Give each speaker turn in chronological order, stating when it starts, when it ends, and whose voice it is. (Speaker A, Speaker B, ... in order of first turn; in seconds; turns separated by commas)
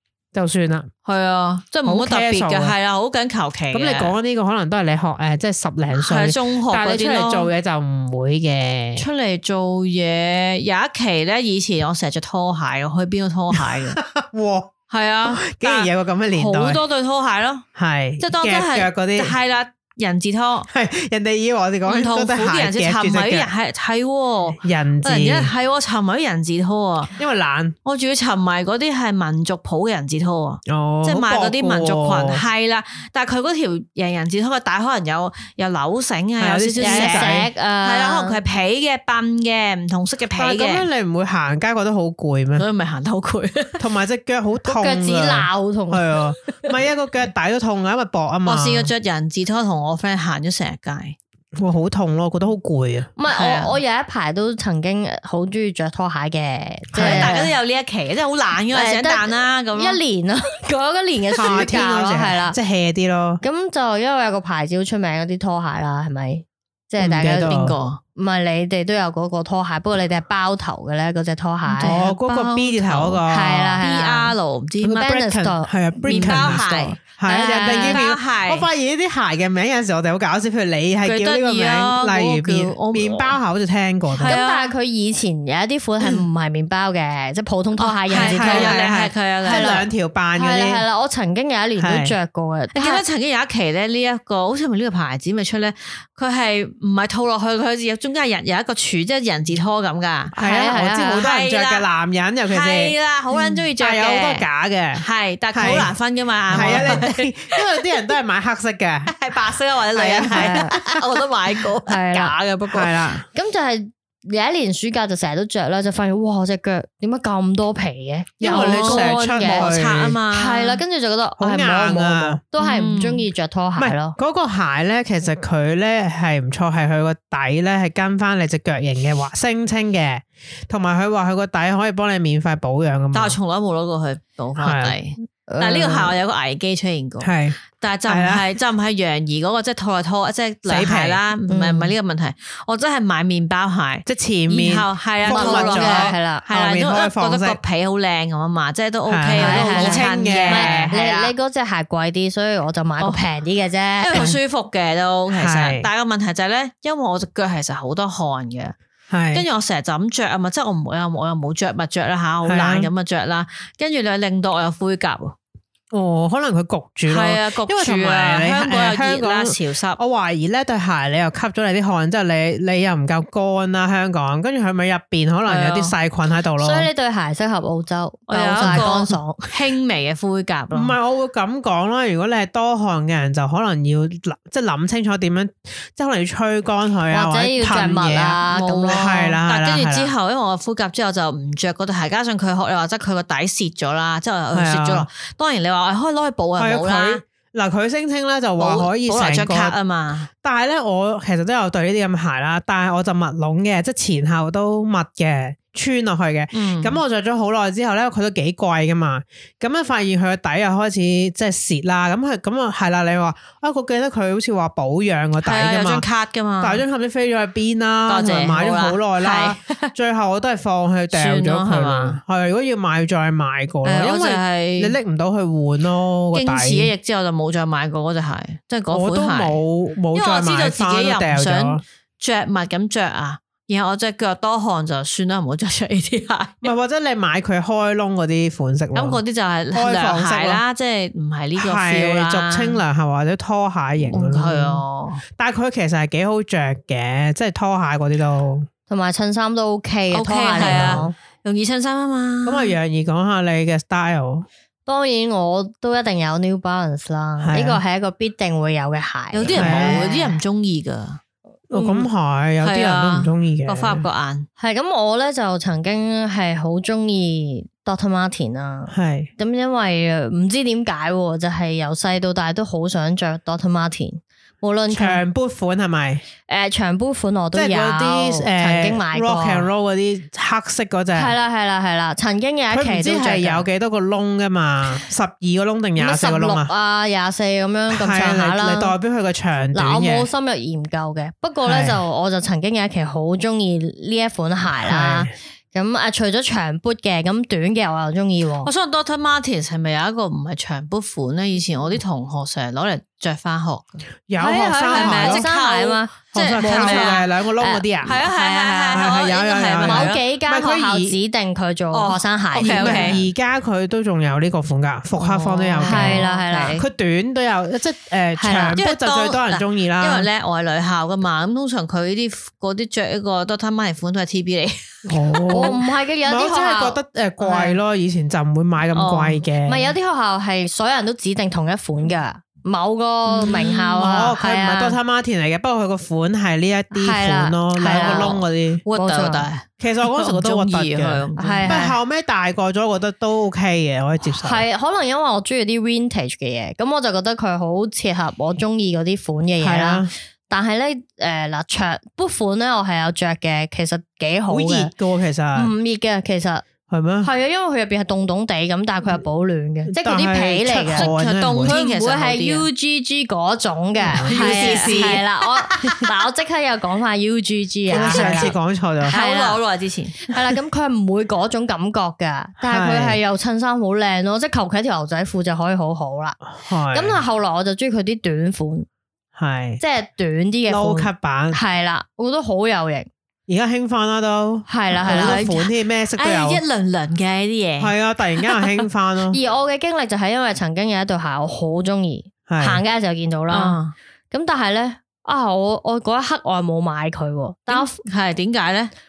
Speaker A: 0.3-0.9, Speaker B: 1.0-4.1, Speaker A: 1.9-2.7, Speaker A: 3.7-9.1, Speaker B: 5.9-7.5, Speaker B: 9.0-14.0, Speaker A: 13.5-14.7, Speaker B: 14.9-17.6, Speaker A: 15.2-16.8, Speaker A: 17.8-19.3, Speaker B: 18.2-20.7, Speaker A: 20.7-23.5, Speaker B: 21.9-27.1, Speaker A: 24.5-25.5, Speaker A: 27.1-27.8, Speaker B: 27.8-40.9, Speaker A: 30.7-32.4, Speaker A: 36.4-37.5, Speaker C: 36.8-38.4, Speaker A: 40.3-42.6, Speaker B: 42.5-43.8, Speaker A: 43.8-48.9, Speaker C: 44.6-46.1, Speaker B: 48.5-51.2, Speaker A: 51.6-53.1, Speaker C: 53.2-57.5, Speaker B: 53.3-53.7, Speaker A: 56.9-57.3, Speaker B: 57.0-60.0, Speaker C: 58.7-62.5, Speaker A: 61.4-63.4, Speaker C: 63.4-67.6, Speaker A: 67.0-67.8, Speaker B: 67.4-68.0, Speaker C: 68.2-72.0, Speaker B: 71.7-73.2, Speaker A: 71.8-73.8, Speaker C: 73.3-78.0, Speaker B: 73.8-75.2, Speaker A: 74.8-84.4, Speaker B: 76.0-78.6, Speaker B: 81.0-83.4, Speaker B: 84.1-84.7, Speaker C: 84.2-88.8, Speaker B: 86.0-86.3, Speaker B: 87.8-89.8, Speaker A: 88.1-90.8, Speaker C: 89.5-93.0, Speaker A: 91.8-92.1, Speaker B: 92.7-100.3, Speaker C: 100.3-101.2, Speaker A: 100.3-105.9, Speaker B: 101.2-101.8, Speaker B: 102.5-104.5, Speaker B: 105.0-107.8, Speaker A: 106.5-109.1, Speaker C: 106.6-106.8, Speaker B: 109.1-113.0, Speaker A: 109.9-111.0, Speaker C: 110.2-110.7, Speaker C: 111.8-112.3, Speaker A: 112.7-113.2, Speaker C: 113.3-119.7, Speaker A: 118.4-120.2, Speaker B: 118.4-120.8, Speaker C: 120.3-124.2, Speaker A: 121.4-122.4, Speaker B: 122.6-123.2, Speaker A: 123.8-133.4, Speaker B: 133.1-151.3, Speaker A: 134.6-134.9, Speaker C: 135.5-136.1, Speaker A: 137.2-138.5, Speaker A: 140.6-141.2, Speaker C: 141.5-141.9, Speaker A: 144.1-147.6, Speaker C: 145.2-146.4, Speaker A: 149.1-150.9, Speaker C: 149.4-154.3, Speaker B: 154.0-158.8, Speaker A: 154.1-154.4, Speaker A: 155.3-155.8, Speaker A: 159.1-159.4, Speaker B: 159.3-165.3, Speaker A: 162.4-162.9, Speaker A: 165.9-176.9, Speaker B: 167.1-170.0, Speaker B: 175.4-175.9, Speaker C: 176.6-179.5, Speaker B: 178.3-180.9, Speaker A: 178.6-178.9, Speaker A: 180.7-190.1, Speaker C: 187.1-189.2, Speaker B: 188.5-197.2, Speaker A: 194.5-195.1, Speaker A: 196.6-199.7, Speaker B: 198.6-200.3, Speaker A: 200.4-216.0, Speaker B: 206.5-207.0, Speaker B: 215.4-216.8, Speaker A: 216.6-226.9, Speaker B: 218.1-219.9, Speaker B: 221.1-222.2, Speaker B: 223.8-224.9, Speaker B: 226.3-229.6, Speaker A: 228.9-231.8, Speaker B: 230.1-236.7, Speaker A: 236.6-239.2, Speaker B: 238.9-242.8, Speaker A: 239.7-240.6, Speaker A: 241.6-248.7, Speaker B: 244.1-245.2, Speaker C: 248.9-251.1, Speaker B: 250.1-252.7, Speaker A: 250.6-251.1, Speaker A: 252.4-254.5, Speaker C: 254.8-260.4, Speaker A: 257.4-257.8, Speaker B: 259.3-261.2, Speaker A: 259.5-260.1, Speaker A: 261.7-264.1, Speaker B: 262.6-264.5, Speaker C: 264.6-275.2, Speaker A: 268.9-269.3, Speaker A: 274.9-276.2, Speaker C: 276.5-279.7, Speaker A: 277.5-281.3, Speaker C: 281.1-283.6, Speaker A: 282.7-286.7, Speaker C: 286.0-288.9, Speaker A: 287.9-290.3, Speaker C: 289.7-298.7, Speaker A: 291.6-292.0, Speaker A: 294.8-295.3, Speaker B: 298.6-307.2, Speaker A: 304.3-305.4, Speaker C: 304.9-309.1, Speaker A: 306.3-308.2, Speaker B: 308.0-310.2, Speaker A: 308.9-311.1, Speaker C: 309.8-313.2, Speaker B: 311.9-313.2, Speaker A: 312.6-320.3, Speaker B: 315.2-316.8, Speaker C: 315.8-316.8, Speaker C: 318.4-318.8, Speaker B: 318.8-325.8, Speaker A: 325.1-329.9, Speaker C: 325.5-327.8, Speaker B: 328.9-329.4, Speaker C: 329.6-335.0, Speaker B: 333.3-334.0, Speaker A: 334.0-338.8, Speaker C: 336.9-338.4, Speaker B: 337.8-341.8, Speaker C: 338.9-339.4, Speaker A: 339.8-344.6, Speaker C: 341.4-341.9, Speaker C: 344.3-354.9, Speaker A: 349.6-350.1, Speaker A: 354.5-355.7, Speaker C: 355.5-356.6, Speaker A: 356.9-357.3, Speaker C: 357.2-361.1, Speaker A: 359.9-361.7, Speaker B: 360.9-362.6, Speaker C: 361.6-368.5, Speaker A: 364.0-365.2, Speaker B: 364.1-366.0, Speaker A: 367.9-369.1, Speaker B: 367.9-368.5, Speaker C: 369.1-369.6, Speaker B: 369.1-370.3, Speaker C: 370.3-376.4, Speaker A: 372.6-373.2, Speaker A: 376.5-377.2, Speaker C: 376.9-378.9, Speaker A: 379.3-379.8, Speaker C: 379.8-383.1, Speaker A: 380.7-381.6, Speaker A: 383.5-386.6, Speaker C: 384.7-385.5, Speaker B: 385.0-388.8, Speaker A: 387.8-389.4, Speaker C: 389.3-393.8, Speaker A: 392.5-392.8, Speaker B: 393.5-393.9, Speaker C: 394.3-398.0, Speaker B: 397.7-398.9